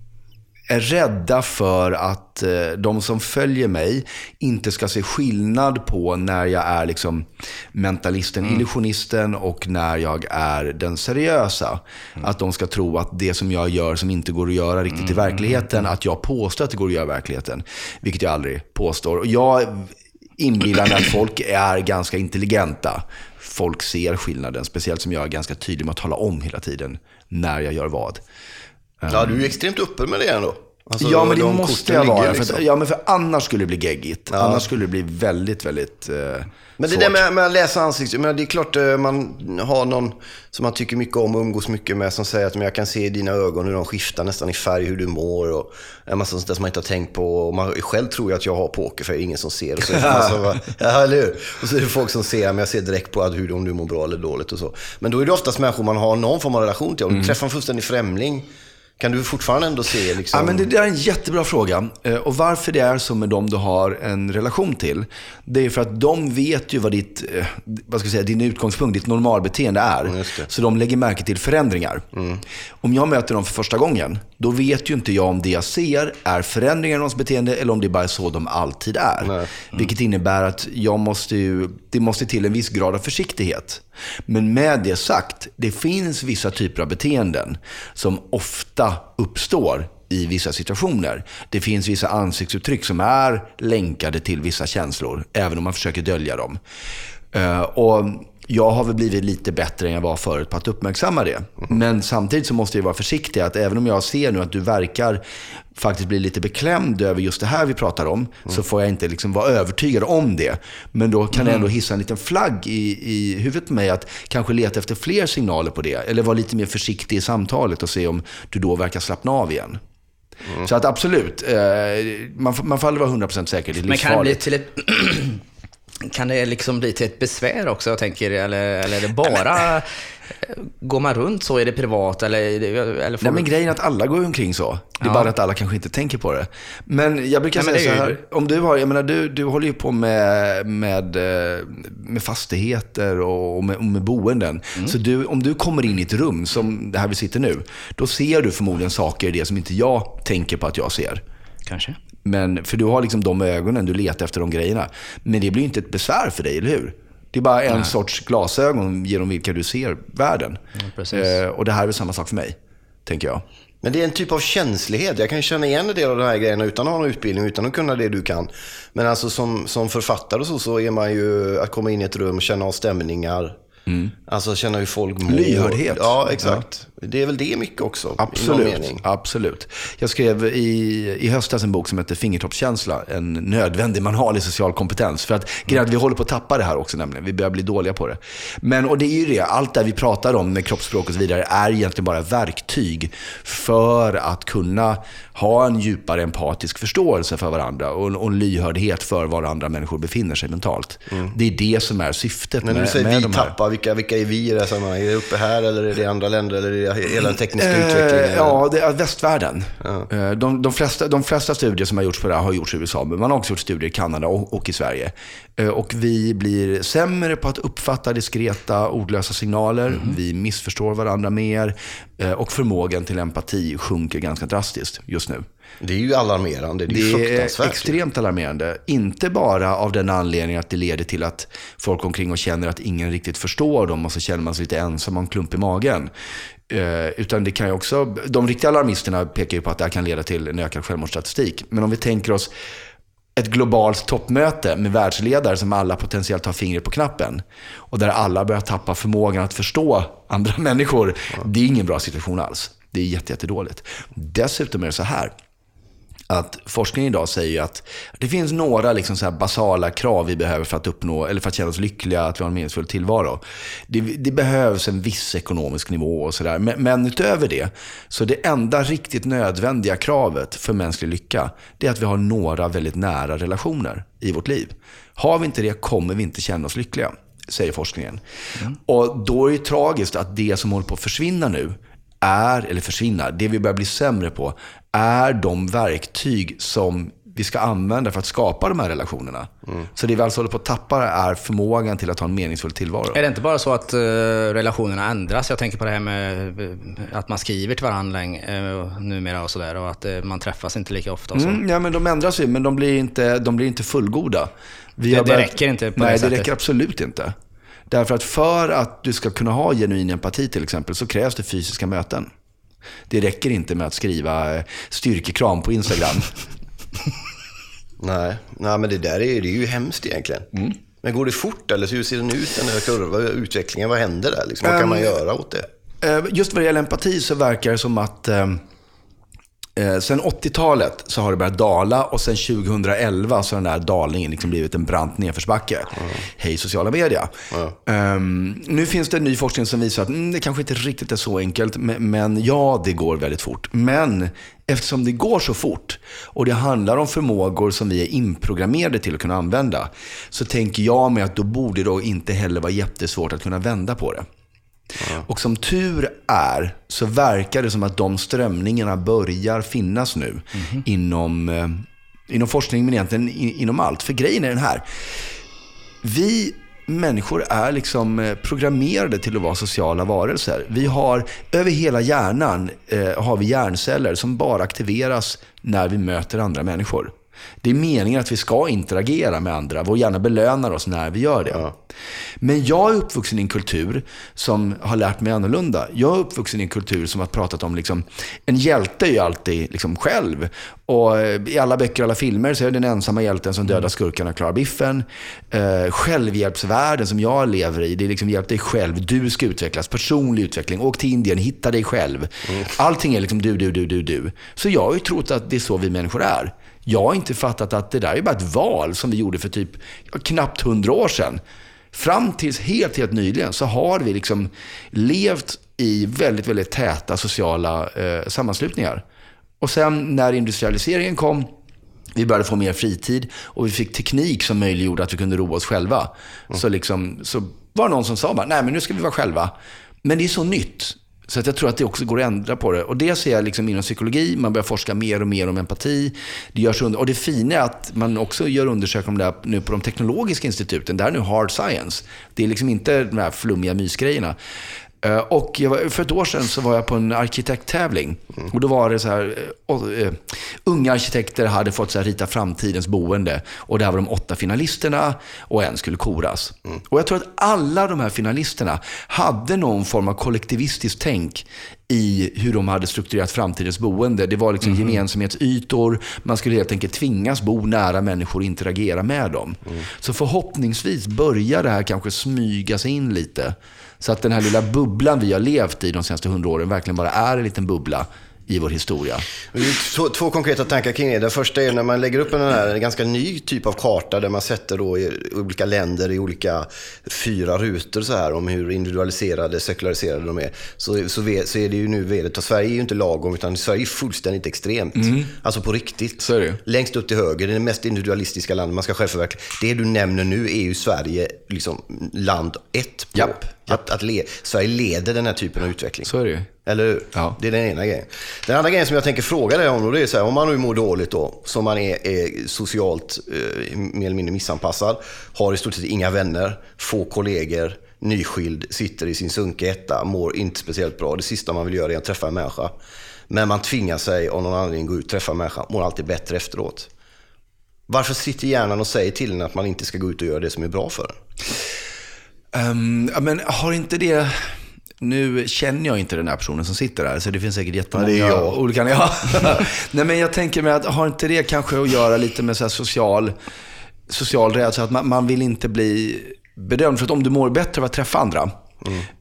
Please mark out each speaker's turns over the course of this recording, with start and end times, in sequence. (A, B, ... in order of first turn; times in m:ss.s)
0:00.7-0:28.2 A
0:29.0-0:29.3 A
0:29.1-0:32.6 B
0:31.0-0:37.2 A
0:34.3-0:34.6 B
0:36.8-0:58.5 B
0:49.9-0:50.6 A
0:59.0-1:00.7 B
1:00.3-1:12.1 A
1:10.1-1:10.5 B
1:12.1-1:12.4 B
1:12.8-1:36.6 A
1:37.3-1:45.2 A
1:45.8-1:59.8 A
1:51.4-1:51.6 C
2:00.6-2:04.4 A
2:03.9-2:05.4 C
2:06.0-2:13.5 C
2:13.2-2:31.2 A
2:15.0-2:15.3 C
2:17.6-2:18.2 C
2:31.7-2:32.0 C
2:32.2-2:40.6 A
2:40.8-2:41.4 C
2:41.1-2:43.4 A
2:43.8-2:53.6 B
2:53.9-2:54.1 A
2:54.3-2:59.0 B
2:55.3-2:56.6 A
2:58.2-3:23.5 A
3:22.6-3:28.6 B
3:27.6-3:45.4 A
3:45.8-3:48.0 B
3:46.9-3:56.1 A
3:56.7-4:02.5 A
4:03.4-4:15.3 A
4:16.3-4:38.2 A
4:38.8-4:53.2 A
4:53.1-5:01.6 C
5:01.4-5:07.3 A
5:05.1-5:06.5 C
5:07.9-5:12.3 A
5:13.1-5:16.3 A
5:18.0-5:20.5 B
5:21.0-5:25.6 B
5:24.6-5:25.1 A
5:26.0-5:28.6 A
5:29.8-5:37.3 A
5:37.9-5:54.3 A
5:55.1-6:04.8 A
6:06.0-6:21.7 A
6:22.4-6:51.4 A
6:51.9-6:59.0 A
6:59.6-7:01.5 A
7:02.2-7:09.5 A
7:10.0-7:24.4 A
7:25.0-7:59.3 A
7:44.6-7:45.0 C
7:59.5-8:26.1 B
8:15.0-8:15.3 A
8:16.2-8:16.6 A
8:23.2-8:23.5 A
8:26.0-8:26.5 A
8:26.6-8:42.7 B
8:43.3-8:46.9 B
8:47.9-8:51.2 B
8:52.5-9:03.3 A
8:57.9-8:58.6 B
9:04.1-9:08.5 A